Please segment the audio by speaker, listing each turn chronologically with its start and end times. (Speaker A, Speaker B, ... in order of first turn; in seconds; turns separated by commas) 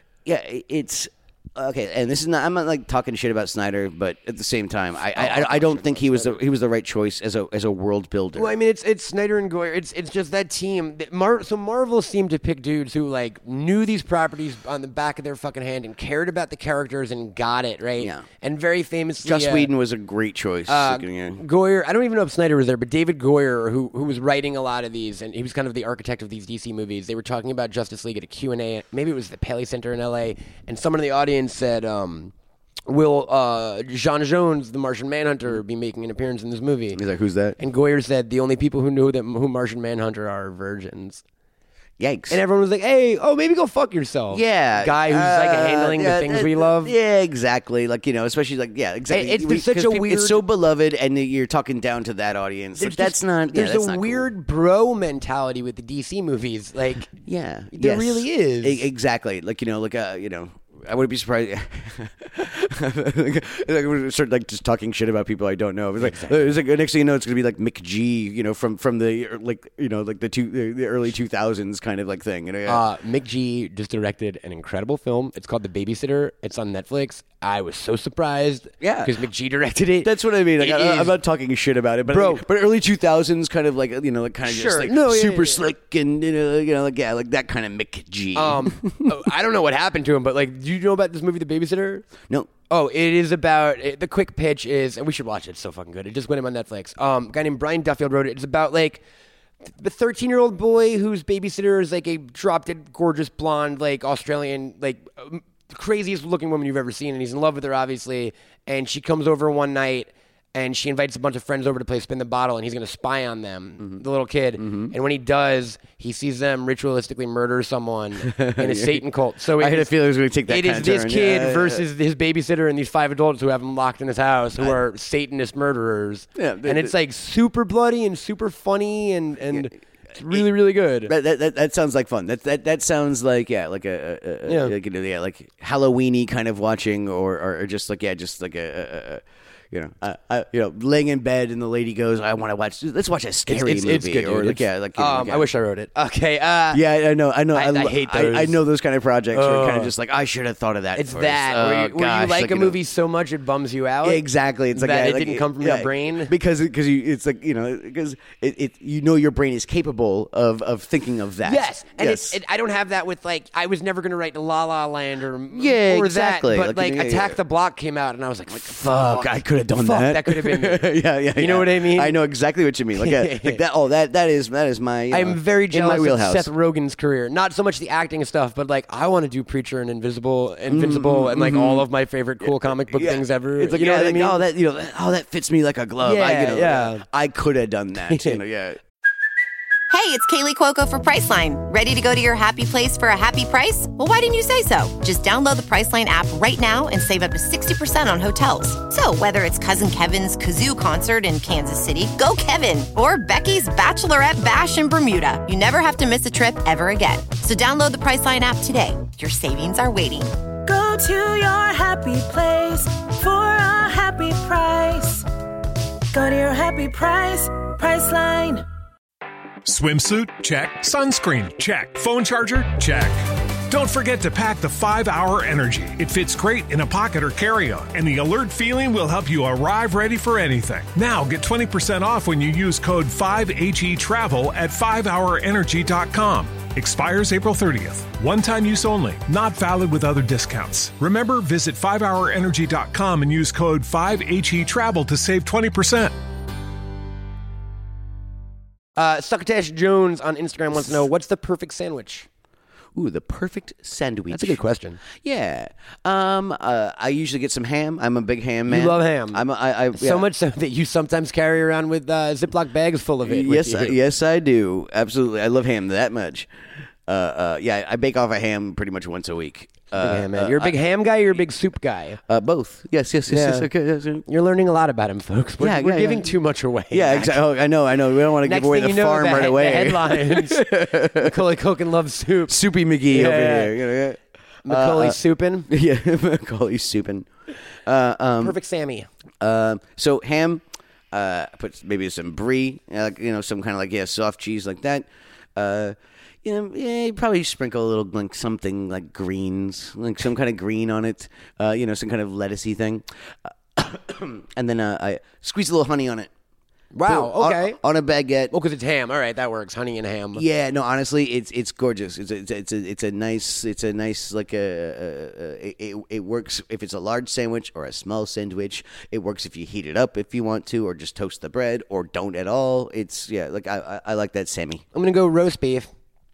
Speaker A: 0.2-8.6, Speaker B: 5.1-6.4, Speaker B: 8.3-19.7, Speaker A: 18.0-18.2, Speaker A: 19.2-21.4, Speaker B: 20.7-32.3, Speaker B: 32.9-37.0, Speaker A: 37.0-37.6, Speaker B: 37.6-41.2, Speaker A: 42.0-42.4, Speaker B: 42.3-47.0, Speaker A: 44.3-54.3, Speaker B: 49.1-50.4, Speaker B: 52.8-57.1, Speaker A: 57.1-72.8, Speaker B: 57.7-58.9, Speaker B: 66.0-66.6, Speaker B: 72.7-81.2, Speaker A: 78.8-79.2, Speaker A: 80.0-89.2, Speaker B: 82.1-82.4, Speaker B: 84.5-85.7, Speaker B: 88.3-92.1, Speaker B: 92.7-99.0, Speaker B: 99.7-119.9, Speaker A: 114.6-114.9, Speaker A: 118.2-119.0, Speaker A: 119.6-121.8, Speaker B: 120.5-131.1, Speaker A: 126.4-127.0, Speaker A: 131.1-145.5, Speaker B: 134.5-134.8, Speaker B: 143.5-146.8, Speaker A: 146.7-152.8, Speaker B: 147.5-148.6, Speaker B: 149.3-149.9, Speaker B: 150.9-154.2, Speaker A: 154.0-162.4, Speaker B: 154.7-156.3, Speaker B: 161.4-172.2, Speaker A: 165.5-167.4, Speaker A: 168.5-176.5, Speaker B: 173.0-173.6, Speaker B: 175.1-184.4, Speaker A: 180.7-181.9, Speaker A: 182.4-188.8, Speaker B: 186.0-187.1, Speaker B: 188.1-188.4, Speaker C: 189.9-210.3, Speaker D: 210.7-215.3, Speaker D: 216.1-218.7, Speaker E: 219.7-246.1, Speaker B: 249.0-252.3, Speaker A: 252.9-254.6, Speaker B: 254.3-255.0, Speaker A: 255.1-260.3, Speaker B: 258.7-259.4, Speaker B: 259.9-264.0, Speaker A: 263.2-266.5, Speaker A: 267.1-270.8, Speaker B: 270.0-272.2, Speaker A: 272.3-274.2, Speaker B: 273.3-273.7, Speaker B: 274.3-277.4, Speaker A: 275.6-276.4, Speaker A: 276.9-281.4, Speaker B: 278.4-283.8, Speaker A: 282.5-287.3, Speaker B: 284.7-285.7, Speaker A: 287.9-288.6, Speaker B: 288.4-289.1, Speaker A: 289.4-303.1, Speaker A: 303.8-306.3, Speaker B: 306.9-307.8, Speaker A: 307.1-308.5, Speaker B: 308.5-310.4, Speaker A: 310.3-324.8, Speaker B: 324.9-325.9